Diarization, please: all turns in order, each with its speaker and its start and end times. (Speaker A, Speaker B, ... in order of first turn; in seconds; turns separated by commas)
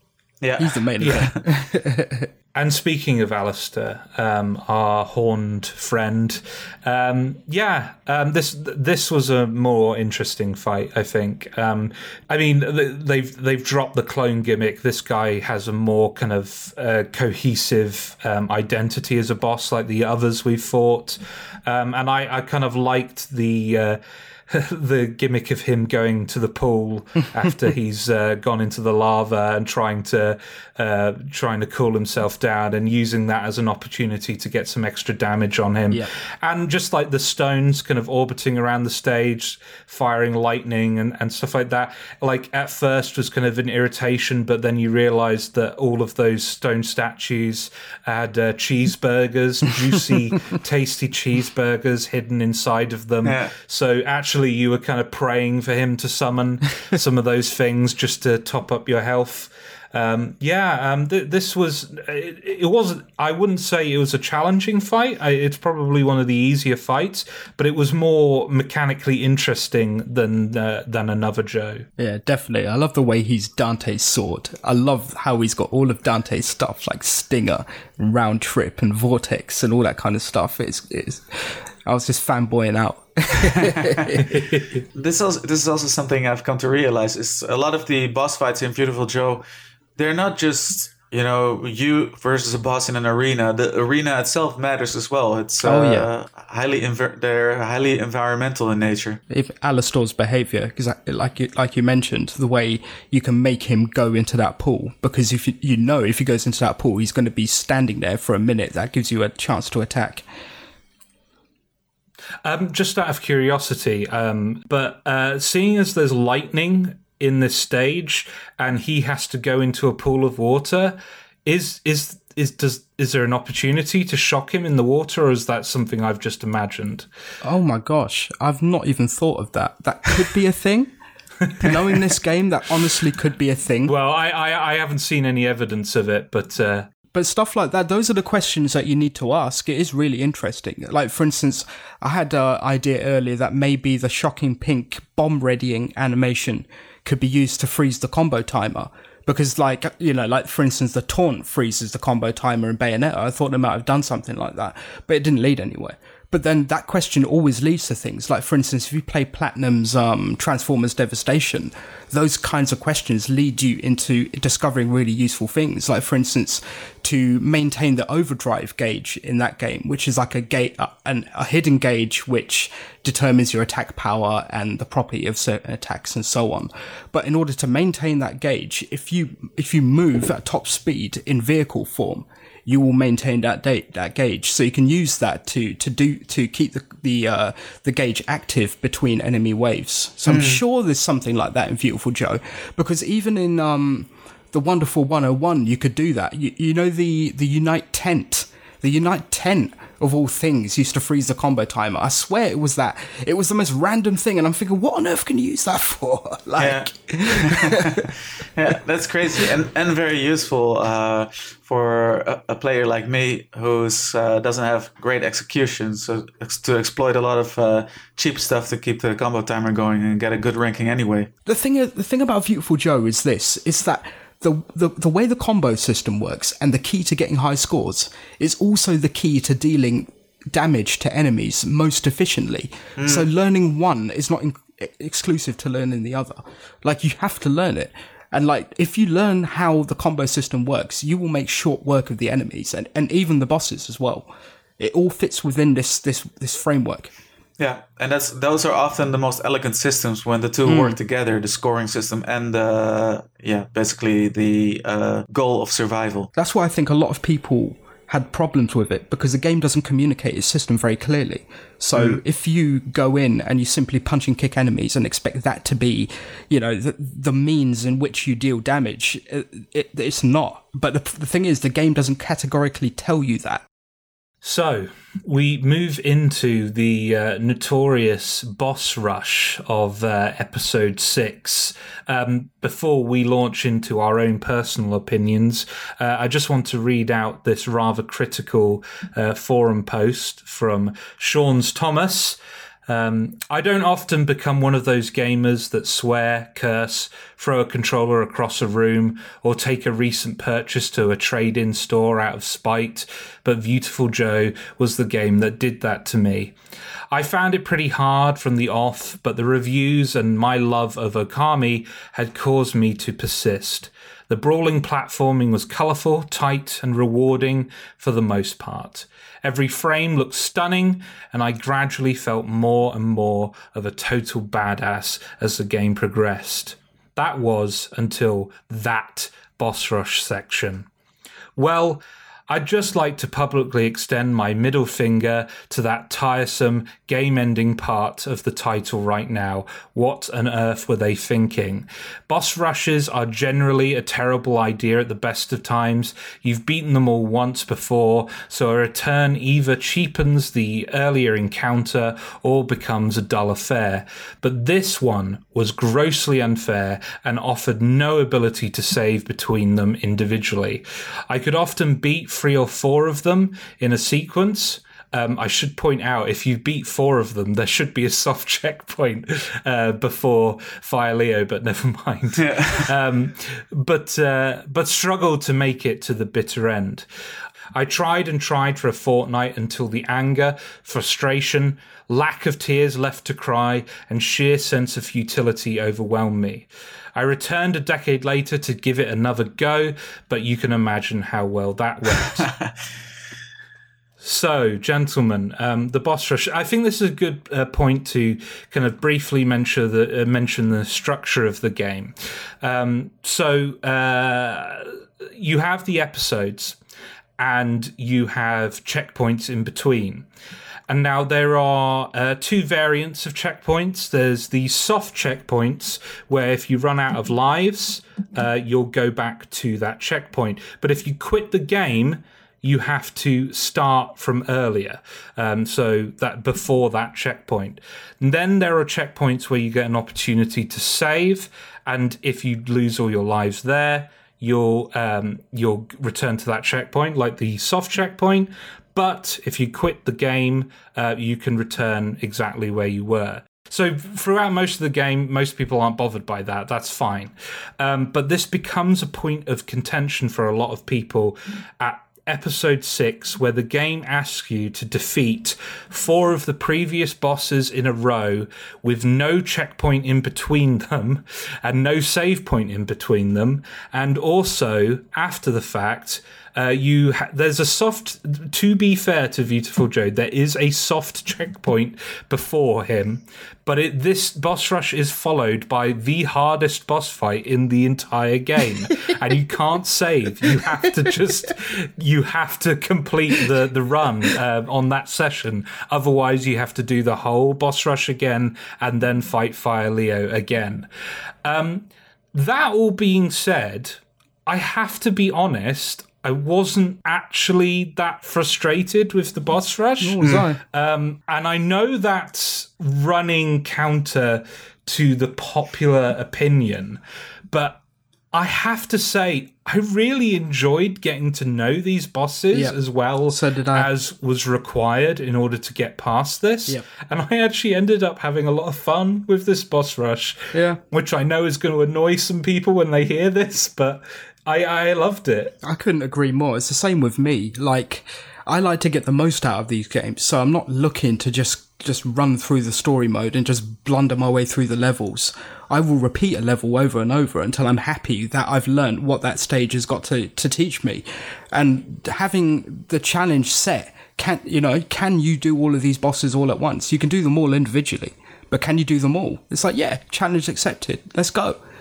Speaker A: 0.4-1.4, Speaker B: 0.6-2.3, Speaker C: 2.5-71.9, Speaker A: 53.2-53.5, Speaker B: 72.0-84.3, Speaker A: 83.5-84.2, Speaker C: 84.3-84.8, Speaker A: 84.9-89.4, Speaker A: 90.0-99.2, Speaker B: 95.6-96.1, Speaker B: 99.3-110.2, Speaker C: 112.4-127.1, Speaker B: 127.4-130.9, Speaker B: 131.6-133.9, Speaker C: 133.9-136.9, Speaker B: 137.1-208.1, Speaker A: 190.3-190.6, Speaker A: 206.6-221.3, Speaker B: 221.5-247.1, Speaker A: 233.0-233.3, Speaker A: 247.6-256.3, Speaker B: 250.7-251.0, Speaker B: 256.4-273.6, Speaker C: 274.4-306.5, Speaker C: 307.1-330.9, Speaker C: 331.6-377.1, Speaker A: 372.4-372.9, Speaker C: 377.8-392.5, Speaker A: 392.4-392.7, Speaker C: 394.2-406.8, Speaker C: 407.4-410.3, Speaker C: 410.9-490.9, Speaker C: 491.4-507.8, Speaker B: 500.0-500.6, Speaker C: 508.3-525.5, Speaker B: 512.5-512.8, Speaker B: 513.3-513.9, Speaker B: 520.5-520.8, Speaker B: 525.6-551.6